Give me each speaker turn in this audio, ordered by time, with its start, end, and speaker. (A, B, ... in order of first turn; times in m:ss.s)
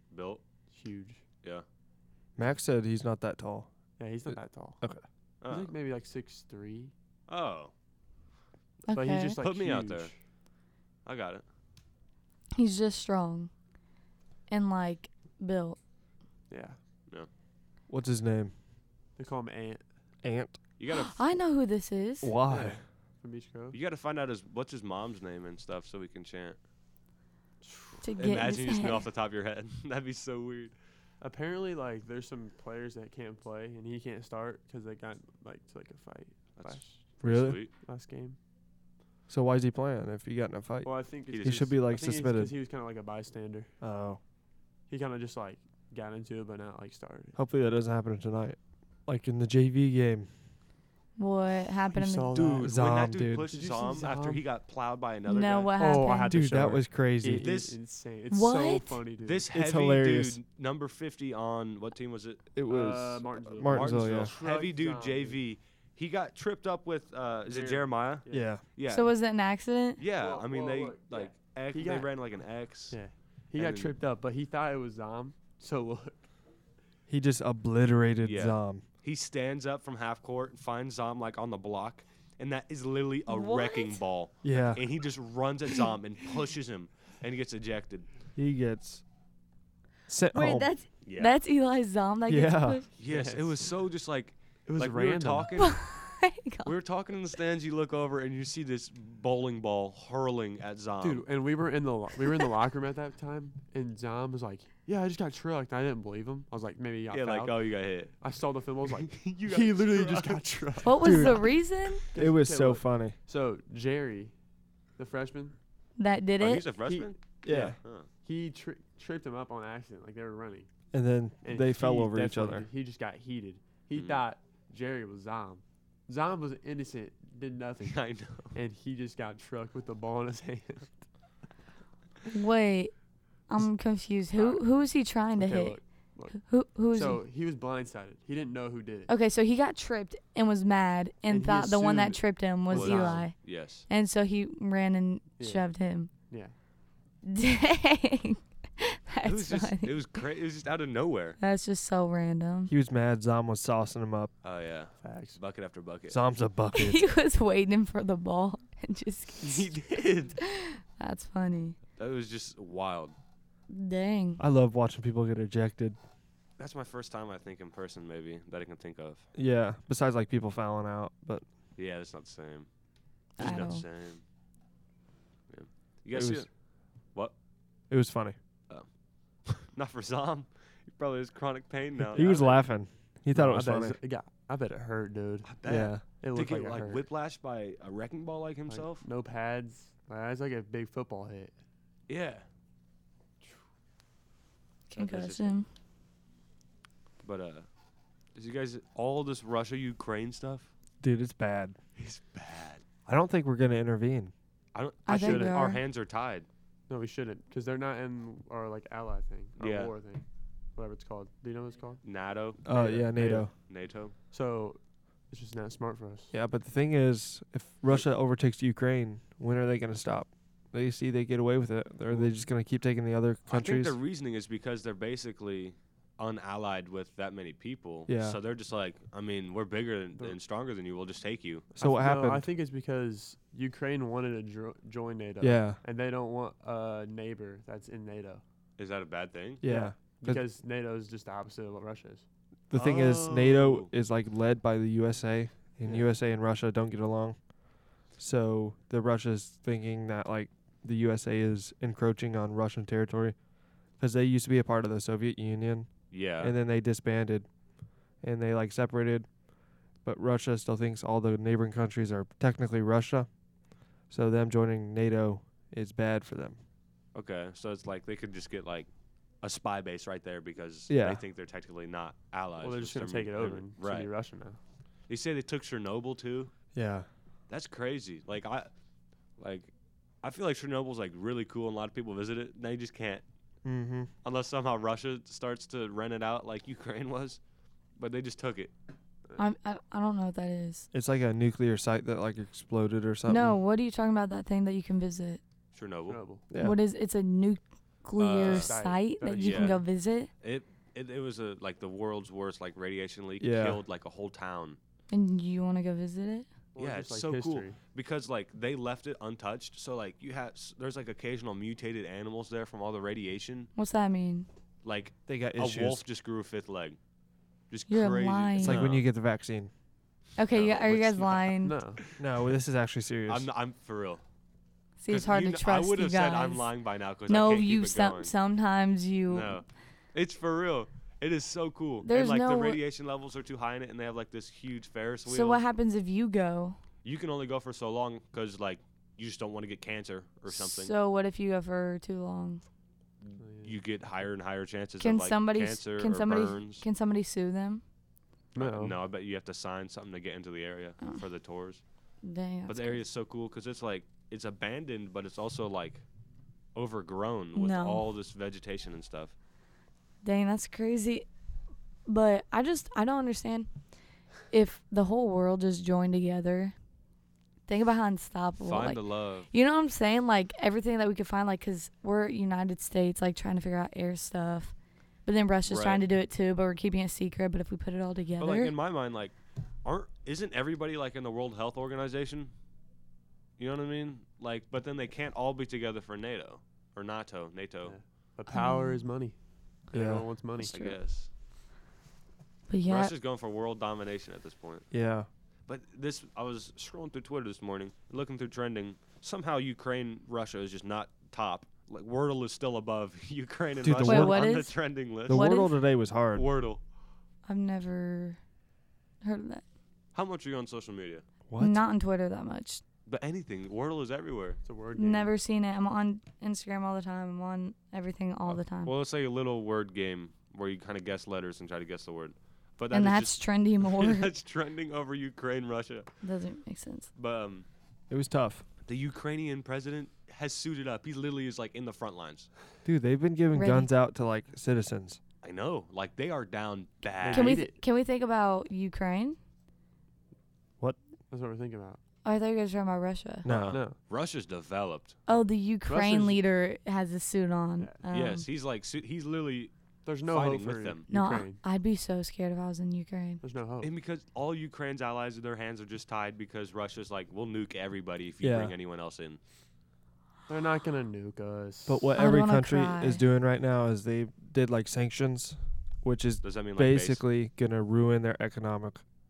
0:00.1-0:00.4 A
0:00.7-0:01.2 B
0:02.4-0:03.7 C
0:04.0-0:04.8 B
0:04.3-0:05.0 C
0:05.4-0:05.7 A
0:05.5-0:06.9 B
0:07.3-0:07.7 A
0:08.9-0:09.4 D
0:08.9-0:10.2 B
0:09.4-0:10.1 A
0:11.0-0:11.4 A
0:12.6-0:13.5 D
0:14.5-0:15.8 D
0:16.5-0:16.8 B
0:17.9-0:18.5 C
0:19.2-0:19.8 B
0:20.2-0:20.5 C
0:20.8-0:21.2 A
0:20.9-0:22.4 D
0:22.2-0:22.8 C
0:22.5-0:23.8 B
0:23.7-0:26.6 A
0:27.6-0:28.0 B
0:28.0-0:29.1 D
0:28.2-0:30.7 A
0:31.2-0:38.4 B
0:36.6-0:37.7 A
0:37.2-0:37.6 C
0:39.3-0:42.5 C
0:40.8-0:43.7 B
0:41.3-0:41.7 A
0:43.8-0:44.2 C
0:44.9-0:47.4 B
0:47.4-0:50.3 C
0:51.2-0:52.4 D
0:51.9-0:52.7 B
0:52.4-0:53.5 C
0:52.6-0:55.7 A
0:53.5-0:54.4 B
0:55.3-0:56.4 D
0:55.8-0:59.5 B
0:56.3-0:57.5 C
0:57.4-0:57.8 A
0:58.3-0:59.0 D
0:59.2-1:02.4 A
0:59.5-1:00.4 C
1:02.5-1:04.3 C
1:02.7-1:05.4 B
1:03.6-1:09.1 A
1:07.5-1:08.5 B
1:08.3-1:08.6 C
1:08.8-1:10.0 D
1:10.0-1:13.0 A
1:10.2-1:12.1 B
1:12.9-1:16.2 B
1:13.6-1:13.9 A
1:17.1-1:18.8 C
1:18.2-1:28.1 A
1:23.3-1:24.0 D
1:24.4-1:24.8 C
1:28.4-1:29.0 C
1:30.1-1:30.7 C
1:30.3-1:32.9 D
1:31.0-1:31.4 A
1:32.3-1:32.8 C
1:33.0-1:35.8 A
1:33.0-1:33.7 B
1:34.7-1:35.5 B
1:35.6-1:36.7 D
1:36.6-1:41.2 A
1:41.0-1:47.7 B
1:47.1-1:48.2 A
1:48.2-1:51.4 B
1:48.8-1:50.5 A
1:50.8-1:52.0 D
1:51.0-1:51.4 C
1:52.1-1:54.3 B
1:52.1-1:53.2 C
1:55.0-1:55.6 B
1:56.0-1:56.7 D
1:56.4-1:58.1 A
1:56.8-2:00.7 B
1:57.4-1:57.8 C
2:00.9-2:02.7 C
2:01.4-2:08.0 B
2:03.9-2:04.2 A
2:07.8-2:08.6 A
2:08.5-2:10.9 B
2:12.3-2:12.9 D
2:13.5-2:15.8 D
2:14.4-2:14.6 B
2:15.4-2:16.4 B
2:16.3-2:17.2 D
2:16.9-2:19.1 B
2:19.1-2:26.1 D
2:21.3-2:23.3 B
2:22.7-2:23.9 A
2:25.4-2:25.6 B
2:26.3-2:26.5 B
2:27.2-2:30.0 D
2:29.2-2:31.4 A
2:31.4-2:32.7 D
2:32.7-2:34.3 C
2:34.4-2:36.2 A
2:35.0-2:35.4 B
2:36.1-2:37.0 C
2:36.7-2:39.7 D
2:39.4-2:40.4 A
2:40.4-2:41.8 D
2:42.0-2:43.1 A
2:43.7-2:44.4 D
2:44.4-2:46.0 C
2:46.6-2:49.3 A
2:49.3-2:51.4 C
2:51.8-2:52.7 A
2:53.4-2:53.8 D
2:53.4-2:54.2 A
2:55.5-2:56.5 A
2:56.1-2:56.4 C
2:57.9-2:58.4 C
2:59.4-3:02.6 A
3:02.1-3:04.0 C
3:03.3-3:05.5 B
3:05.4-3:09.0 A
3:05.6-3:06.0 C
3:06.0-3:07.0 B
3:08.7-3:11.5 B
3:12.1-3:12.4 A
3:14.9-3:15.7 D
3:14.9-3:15.6 A
3:17.2-3:17.7 A
3:18.3-3:20.7 A
3:21.0-3:21.8 C
3:22.0-3:22.8 A
3:23.0-3:24.3 C
3:24.7-3:26.5 A
3:25.0-3:25.8 D
3:25.1-3:25.6 B
3:26.9-3:32.0 B
3:29.6-3:29.9 A
3:32.0-3:32.6 A
3:32.6-3:33.5 B
3:32.6-3:33.5 C
3:33.6-3:34.1 A
3:34.3-3:36.3 B
3:36.3-3:44.0 C
3:42.1-3:42.4 B
3:43.5-3:51.7 A
3:48.1-3:48.4 C
3:51.7-3:58.4 B
3:51.8-3:52.5 C
3:55.4-3:55.8 C
3:58.8-3:59.6 A
3:59.6-4:00.4 C
3:59.6-4:02.2 B
4:02.7-4:07.4 C
4:02.7-4:03.9 A
4:05.8-4:06.1 B
4:08.1-4:13.4 C
4:14.0-4:17.5 C
4:16.1-4:16.6 A
4:18.2-4:19.3 C
4:20.0-4:23.3 C
4:24.1-4:26.6 C
4:27.1-4:28.9 A
4:29.4-4:34.1 A
4:30.9-4:31.2 C
4:32.6-4:34.6 B
4:35.1-4:36.5 A
4:36.7-4:37.1 C
4:37.5-4:38.7 A
4:39.4-4:39.7 A
4:40.2-4:43.2 A
4:43.6-4:44.1 C
4:44.2-4:47.4 A
4:48.0-4:48.7 A
4:49.4-4:50.9 D
4:50.9-4:53.6 C
4:53.3-4:55.4 D
4:55.7-4:56.2 A
4:56.1-4:56.4 B
4:56.5-4:56.8 C
4:56.6-5:00.3 D
4:58.2-4:58.8 A
4:58.4-4:59.8 B
4:59.4-4:59.8 A
5:00.4-5:04.8 A
5:03.4-5:03.8 C
5:05.1-5:06.5 D
5:06.7-5:07.8 B
5:06.8-5:13.7 A
5:13.8-5:14.5 D
5:14.8-5:17.0 A
5:15.3-5:16.0 C
5:17.7-5:19.0 A
5:17.9-5:18.8 D
5:18.6-5:19.7 C
5:20.4-5:21.8 D
5:20.5-5:21.5 A
5:21.6-5:22.0 B
5:22.2-5:23.5 C
5:23.3-5:24.2 A
5:25.0-5:26.7 D
5:25.1-5:28.3 A
5:27.3-5:29.5 D
5:29.3-5:35.6 A
5:32.0-5:32.8 D
5:35.2-5:36.8 D
5:37.0-5:40.9 A
5:40.5-5:42.6 D
5:43.2-5:46.8 A
5:43.4-5:43.8 B
5:45.0-5:47.8 D
5:48.5-5:49.0 B
5:48.6-5:51.8 A
5:52.2-5:53.0 D
5:52.7-5:56.0 A
5:56.7-5:59.3 A
5:57.5-5:58.0 D
6:00.2-6:01.2 D
6:02.0-6:03.7 D
6:04.5-6:06.7 D
6:07.7-6:14.7 D
6:08.6-6:09.5 A
6:15.2-6:18.7 D
6:15.7-6:16.0 A
6:18.4-6:22.5 A
6:23.6-6:28.0 A
6:27.8-6:29.4 B
6:28.5-6:29.1 D
6:29.9-6:30.7 B
6:29.9-6:30.2 C
6:30.6-6:31.0 D
6:30.6-6:31.3 A
6:32.7-6:33.1 D
6:32.9-6:34.9 A
6:34.9-6:35.3 C
6:35.7-6:45.5 A
6:43.8-6:44.5 C
6:44.0-6:44.8 D
6:45.3-6:46.4 C
6:45.3-6:45.7 D
6:46.3-6:46.8 A
6:47.4-6:48.4 D
6:49.2-6:49.6 D
6:50.1-6:51.2 A
6:51.5-6:51.8 C
6:51.6-6:52.8 D
6:53.0-6:54.6 A
6:54.6-6:55.3 B
6:54.9-6:58.9 D
6:58.5-7:06.1 A
7:02.9-7:04.3 D
7:06.2-7:07.1 D
7:07.2-7:07.6 A
7:08.1-7:08.6 C
7:08.8-7:12.5 A
7:12.8-7:15.2 C
7:13.5-7:13.9 D
7:15.4-7:17.6 A
7:17.2-7:17.8 B
7:17.3-7:19.4 D
7:21.3-7:22.0 B
7:22.2-7:23.4 D
7:23.4-7:23.8 C
7:23.4-7:25.2 A
7:23.7-7:24.0 B
7:25.3-7:28.5 D
7:25.9-7:26.4 B
7:28.1-7:29.7 A
7:30.0-7:31.6 B
7:30.2-7:31.0 A
7:31.1-7:33.4 D
7:33.4-7:33.9 B
7:33.8-7:39.4 A
7:38.4-7:38.7 C
7:40.5-7:42.1 B
7:41.9-7:49.0 C
7:42.2-7:43.2 D
7:46.4-7:47.2 A